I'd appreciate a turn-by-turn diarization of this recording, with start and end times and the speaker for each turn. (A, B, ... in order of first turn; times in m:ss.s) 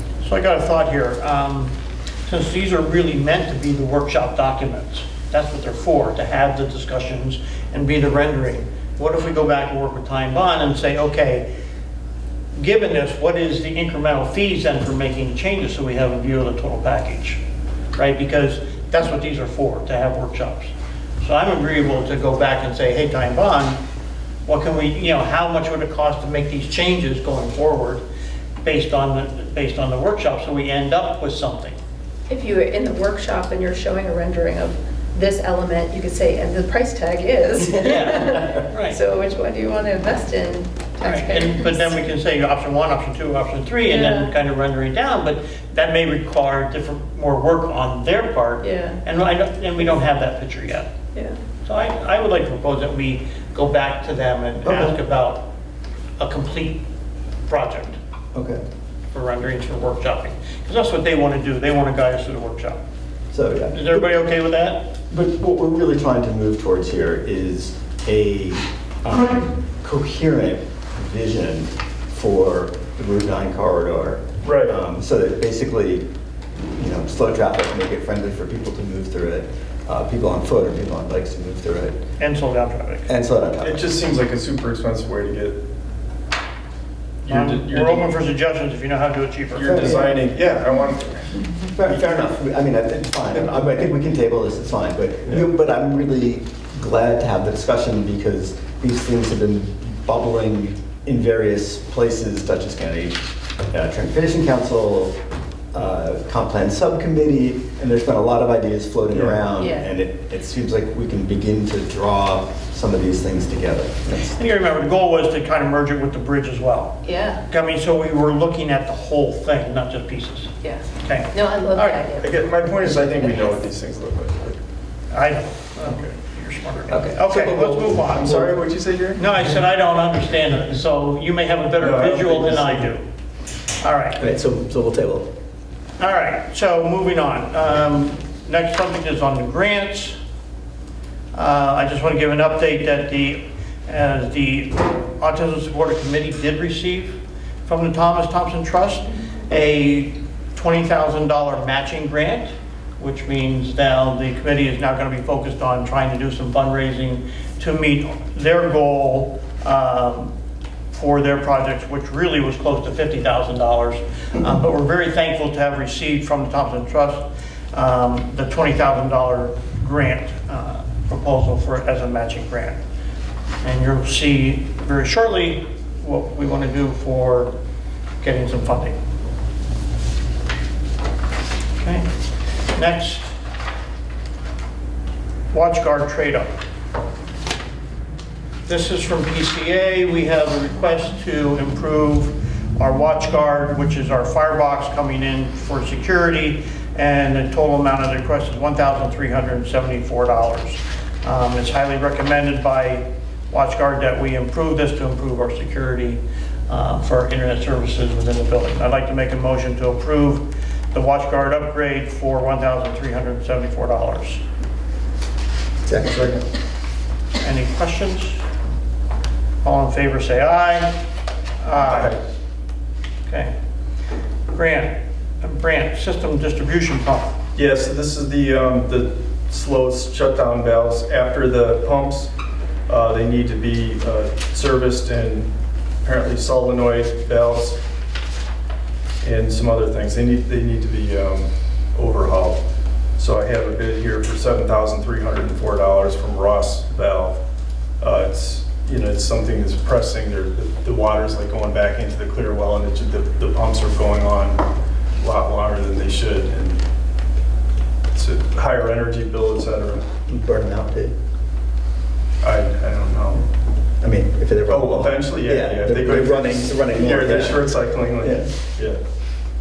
0:00.2-0:01.7 A
0:02.3-0:11.5 A
0:12.6-0:17.4 A
0:18.0-0:23.8 A
0:24.5-0:28.0 A
0:28.6-0:31.8 A
0:32.3-0:42.0 B
0:37.8-0:39.0 A
0:41.0-0:50.9 A
0:43.9-0:44.3 B
0:48.6-0:49.0 B
0:51.1-0:51.4 B
0:51.6-0:55.5 A
0:54.6-0:55.0 C
0:56.2-0:56.8 A
0:57.5-0:58.0 A
0:58.3-0:58.6 C
0:59.1-1:02.8 A
1:03.3-1:04.1 C
1:03.7-1:04.8 A
1:05.1-1:16.1 C
1:14.4-1:14.8 D
1:16.8-1:22.0 C
1:22.2-1:23.1 A
1:23.1-1:23.9 C
1:23.6-1:25.6 D
1:27.2-1:28.1 D
1:27.3-1:30.1 A
1:29.5-1:32.0 D
1:29.6-1:30.2 C
1:31.7-1:45.2 C
1:45.7-1:54.3 C
1:49.1-1:49.4 D
1:49.6-1:49.9 B
1:54.3-2:02.1 A
1:57.0-1:57.4 B
2:00.6-2:03.4 B
2:02.2-2:04.6 D
2:05.1-2:08.4 A
2:05.8-2:06.1 D
2:06.9-2:08.6 C
2:08.2-2:09.2 D
2:09.2-2:13.1 A
2:11.8-2:12.9 D
2:13.8-2:14.2 A
2:14.2-2:15.3 C
2:16.0-2:20.2 A
2:21.3-2:40.3 A
2:40.9-2:52.8 A
2:53.6-2:57.5 A
2:58.2-2:59.0 A
3:01.8-3:02.1 A
3:02.7-3:03.3 A
3:05.5-3:06.5 A
3:08.7-3:34.4 A
3:35.9-3:36.4 C
3:36.1-3:36.4 D
3:37.4-3:38.4 A
3:39.6-3:41.0 A
3:41.6-3:42.2 A
3:41.9-3:42.2 D
3:43.3-3:43.5 A
3:44.5-3:47.4 A
3:47.6-3:52.3 D
3:52.9-3:55.5 D
3:56.0-3:57.8 D
3:59.2-4:02.6 D
4:03.2-4:07.4 D
4:08.0-4:14.6 D
4:15.2-4:16.8 D
4:18.1-4:20.1 D
4:20.3-4:21.1 C
4:22.4-4:23.5 D
4:24.0-4:28.5 C
4:24.7-4:29.0 D